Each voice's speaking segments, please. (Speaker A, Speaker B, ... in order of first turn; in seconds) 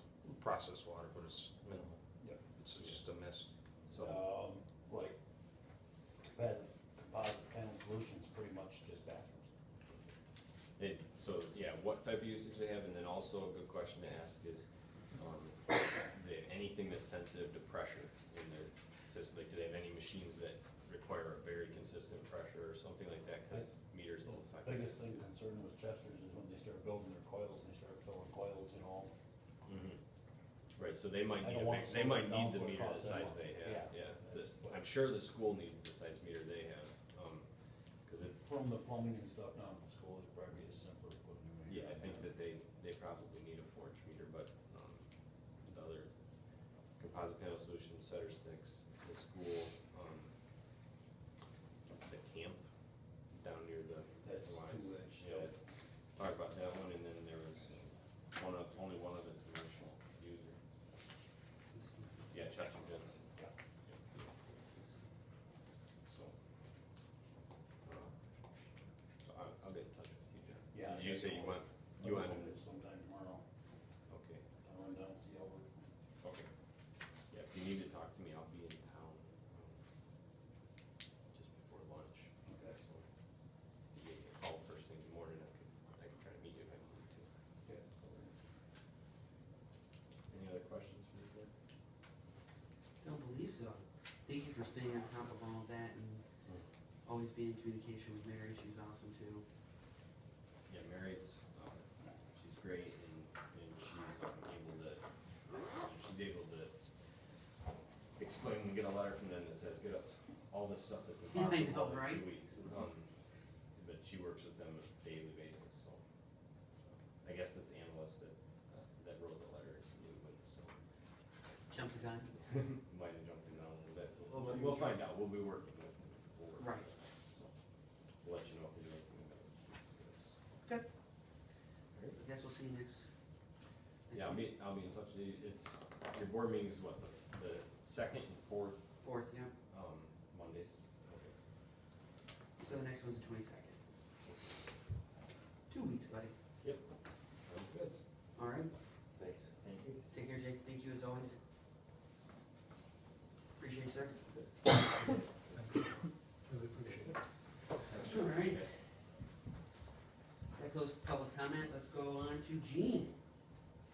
Speaker A: 0.3-1.9, 2.5-3.5, 156.5-157.0
Speaker B: 2.8-3.0, 3.8-4.3, 10.8-25.1, 29.6-30.0, 30.8-37.5, 38.0-38.4, 41.7-45.0, 45.6-46.1, 47.0-50.3, 52.0-52.7, 53.3-55.6, 56.1-60.6, 62.3-63.3, 63.9-64.5, 66.0-66.3, 67.8-68.2, 69.2-72.6, 74.1-74.4, 76.2-76.5, 77.3-79.8, 81.3-83.1, 83.9-87.3, 90.3-91.5, 100.7-106.8, 108.2-113.1, 113.8-116.0, 116.8-120.8, 122.3-127.5, 128.2-130.3, 131.9-132.2, 134.1-138.9, 139.7-141.3, 144.2-144.6, 146.6-146.9, 147.4-148.0, 149.2-150.1, 155.1-156.0, 156.8-157.2, 157.8-158.7
Speaker C: 4.0-5.2, 6.3-9.5, 24.2-29.1, 31.4-34.8, 38.4-42.3, 54.2-55.6, 70.7-73.5, 74.6-75.9, 82.5-82.8, 87.7-88.3
Speaker D: 61.7-62.3, 93.0-96.2, 97.0-99.5, 111.3-112.3, 121.7-122.3, 126.6-126.9, 132.1-133.1, 134.1-134.5, 139.0-139.6, 142.6-143.8, 145.7-146.3, 148.3-148.7, 150.1-151.4, 153.6-154.3, 158.1-158.9, 160.6-163.2